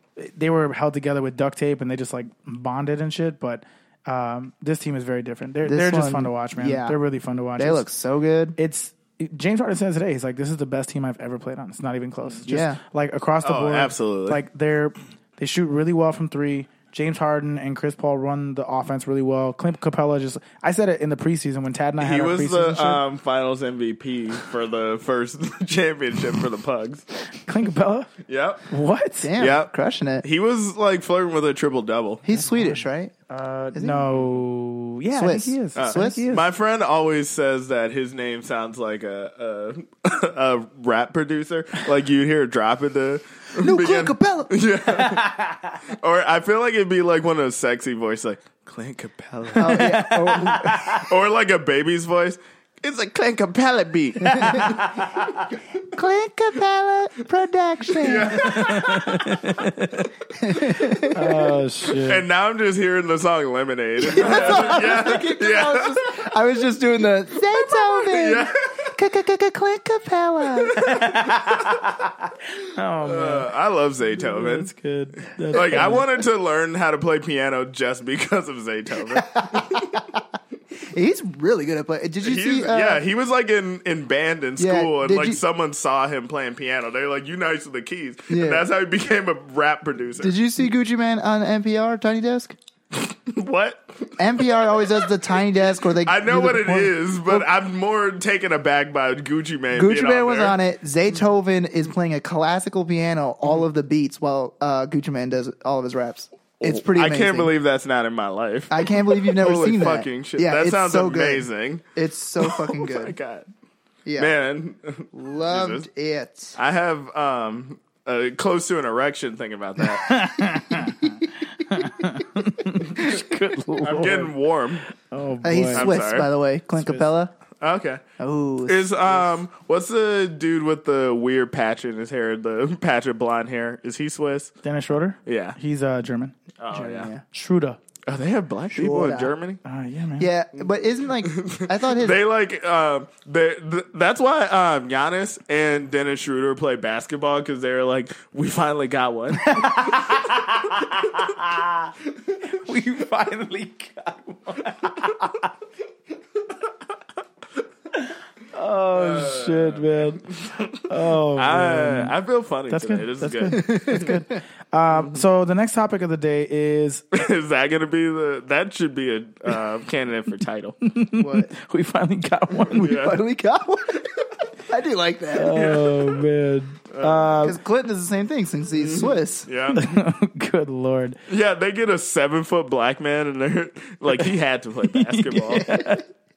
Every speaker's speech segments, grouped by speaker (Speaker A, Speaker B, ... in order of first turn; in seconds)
Speaker A: 0.2-7.8, 8.6-23.0, 27.3-28.1, 28.7-29.3, 32.3-36.5, 45.0-45.6, 49.5-51.1, 54.2-55.5, 58.3-60.1, 61.0-62.2, 70.8-73.5, 74.2-76.1, 119.9-124.3, 124.9-125.9, 126.8-127.1, 134.6-136.4, 137.3-137.8, 139.6-140.3, 149.3-151.9, 152.4-155.5, 157.9-162.1, 162.7-167.1, 170.8-173.0, 175.3-177.6, 179.7-181.2, 184.9-186.0
Speaker B: 5.6-7.0, 7.6-8.6, 12.5-12.8, 29.2-30.2, 32.2-33.1, 33.7-34.1, 35.1-36.3, 43.5-44.5, 49.6-51.0, 55.8-58.7, 60.4-61.5, 64.0-70.8, 79.0-80.2, 80.8-83.0, 84.6-85.4, 88.3-88.7, 90.2-92.5, 94.2-97.5, 99.7-107.5, 108.7-113.2, 114.0-114.3, 115.1-116.6, 125.4-127.3, 128.2-129.2, 136.7-137.2, 138.7-139.3, 140.2-142.2, 163.5-164.2, 171.2-171.5, 172.7-175.7, 177.4-179.5, 185.5-186.0
Speaker C: 13.4-14.4, 22.0-27.0, 28.2-28.7, 29.4-29.7, 30.2-32.3, 35.8-50.0, 50.9-54.9, 57.9-59.4, 62.0-66.3, 67.6-68.9, 70.6-71.7, 73.0-74.7, 75.5-79.9, 82.2-90.3, 92.9-95.2, 95.9-100.6, 106.6-111.8, 112.4-113.5, 114.2-115.8, 116.6-120.3, 123.8-124.8, 125.7-126.3, 127.6-128.0, 128.7-134.5, 135.2-135.6, 136.6-137.1, 138.1-139.6, 141.2-149.9, 158.9-164.1, 167.1-170.8, 172.7-173.2, 175.5-176.2, 176.9-177.3, 178.8-179.9, 181.3-185.7